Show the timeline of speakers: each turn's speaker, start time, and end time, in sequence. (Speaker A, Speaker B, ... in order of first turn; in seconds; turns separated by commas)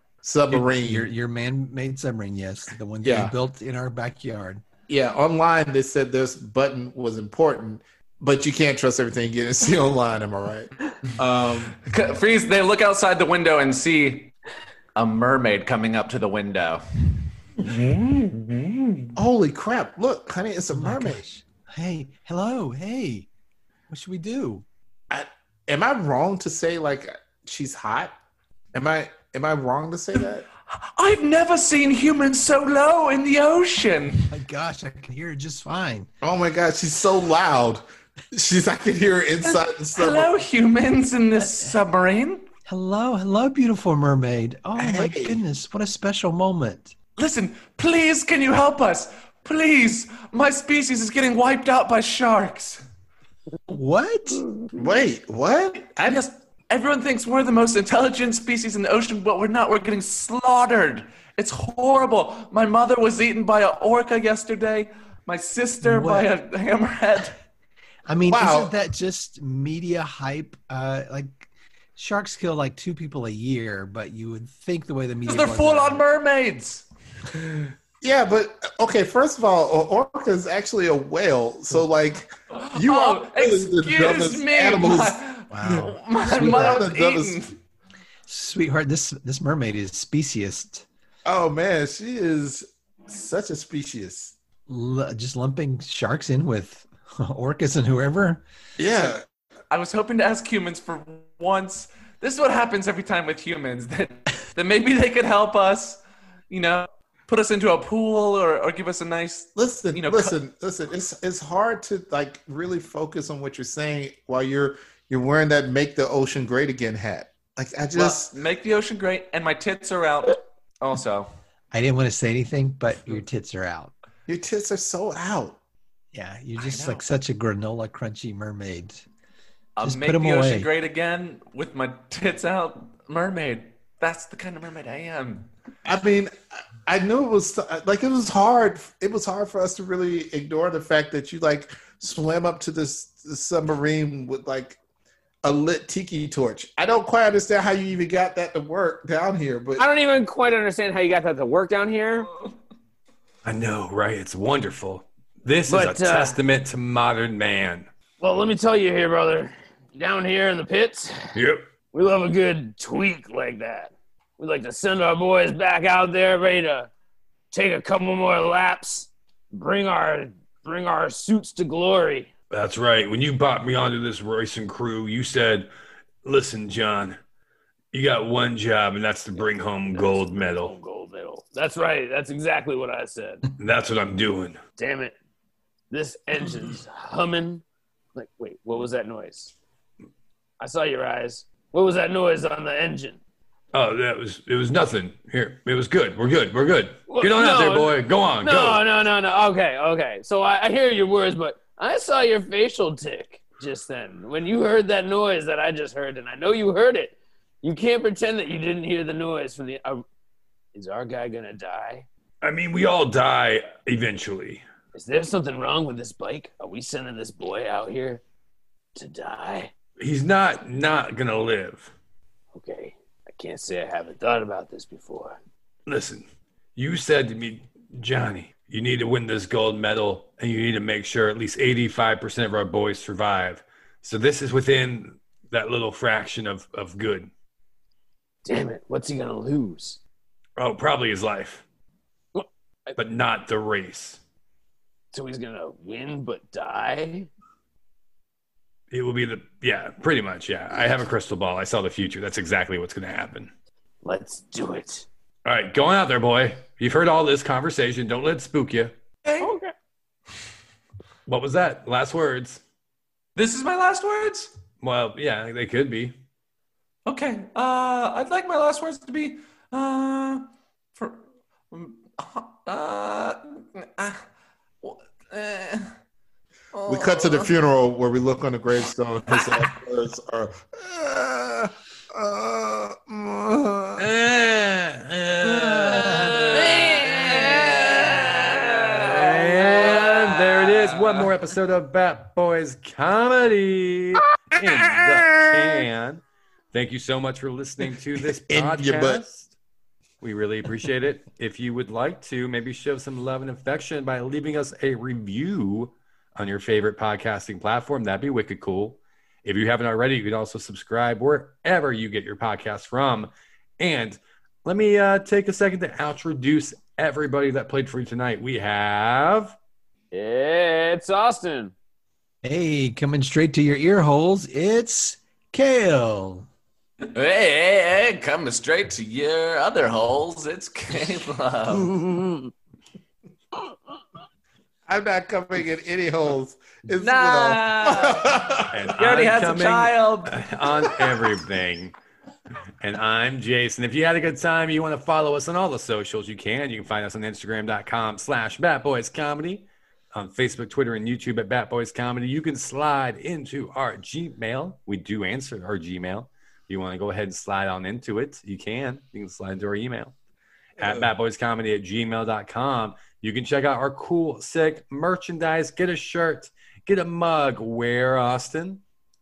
Speaker A: 0.2-1.1, Speaker B: 0.5-4.6, Speaker A: 3.0-3.3, Speaker A: 4.9-11.8, Speaker C: 11.7-14.3, Speaker C: 14.9-16.8, Speaker A: 17.7-18.1, Speaker C: 18.1-18.7, Speaker A: 19.1-21.2, Speaker B: 20.7-23.3, Speaker B: 23.9-24.6, Speaker A: 25.1-28.1, Speaker A: 28.7-30.5, Speaker C: 30.7-34.3, Speaker B: 34.3-36.1, Speaker A: 36.2-40.4, Speaker C: 39.4-42.5, Speaker B: 42.6-47.0, Speaker A: 44.8-45.4, Speaker C: 47.2-52.8, Speaker B: 53.7-54.5, Speaker A: 54.8-56.3, Speaker C: 56.1-67.4, Speaker B: 65.8-66.3, Speaker B: 68.1-76.0, Speaker A: 68.3-68.7, Speaker C: 75.3-76.9, Speaker A: 78.0-87.4, Speaker C: 82.5-87.5, Speaker B: 85.5-86.8, Speaker B: 88.3-90.8, Speaker A: 91.3-94.4, Speaker B: 94.7-98.4, Speaker A: 98.8-99.2, Speaker C: 99.7-110.4, Speaker A: 109.6-118.3, Speaker C: 117.9-121.3, Speaker B: 121.7-123.9, Speaker A: 124.3-125.6, Speaker B: 126.1-129.1, Speaker C: 126.6-127.0, Speaker C: 129.8-135.5, Speaker B: 129.8-130.7, Speaker A: 135.8-136.3, Speaker A: 136.8-144.8, Speaker A: 145.4-149.8, Speaker D: 149.8-152.3, Speaker E: 153.4-157.9, Speaker D: 155.7-156.4, Speaker D: 158.2-161.3, Speaker E: 161.3-161.6, Speaker D: 161.9-166.9, Speaker D: 167.5-172.3, Speaker E: 172.5-175.7, Speaker E: 176.2-177.2, Speaker E: 177.9-180.8, Speaker D: 179.9-183.4, Speaker E: 183.6-184.6, Speaker D: 184.8-185.1, Speaker D: 185.9-187.6, Speaker D: 188.1-189.5, Speaker D: 190.6-193.2, Speaker E: 193.7-198.8, Speaker D: 197.1-210.0, Speaker D: 210.8-212.1, Speaker E: 212.4-214.6, Speaker D: 214.9-218.2, Speaker D: 218.9-219.7, Speaker E: 220.0-221.9, Speaker D: 222.5-225.4, Speaker E: 225.9-226.2, Speaker E: 226.8-237.3, Speaker D: 238.4-240.0, Speaker E: 240.6-241.6, Speaker D: 242.3-243.0, Speaker E: 243.0-244.2, Speaker D: 245.1-247.3, Speaker E: 248.9-253.5, Speaker D: 254.0-255.1, Speaker E: 255.4-258.9, Speaker C: 259.2-259.6, Speaker D: 259.4-259.7, Speaker E: 261.3-262.6, Speaker C: 263.4-264.5, Speaker E: 264.8-266.1, Speaker C: 267.1-274.2, Speaker C: 274.8-275.9, Speaker C: 276.7-277.5, Speaker A: 276.9-284.1, Speaker C: 279.4-279.7, Speaker E: 284.0-288.1, Speaker B: 285.4-286.6, Speaker C: 286.4-291.3, Speaker E: 289.0-299.5, Speaker A: 294.6-295.6, Speaker A: 298.5-299.2, Speaker E: 300.2-319.6, Speaker D: 320.1-321.7, Speaker B: 322.4-326.5, Speaker C: 327.0-332.0, Speaker A: 334.9-338.9, Speaker C: 337.0-338.3, Speaker E: 338.7-341.9, Speaker C: 338.9-340.4, Speaker E: 342.8-360.1, Speaker E: 360.8-368.8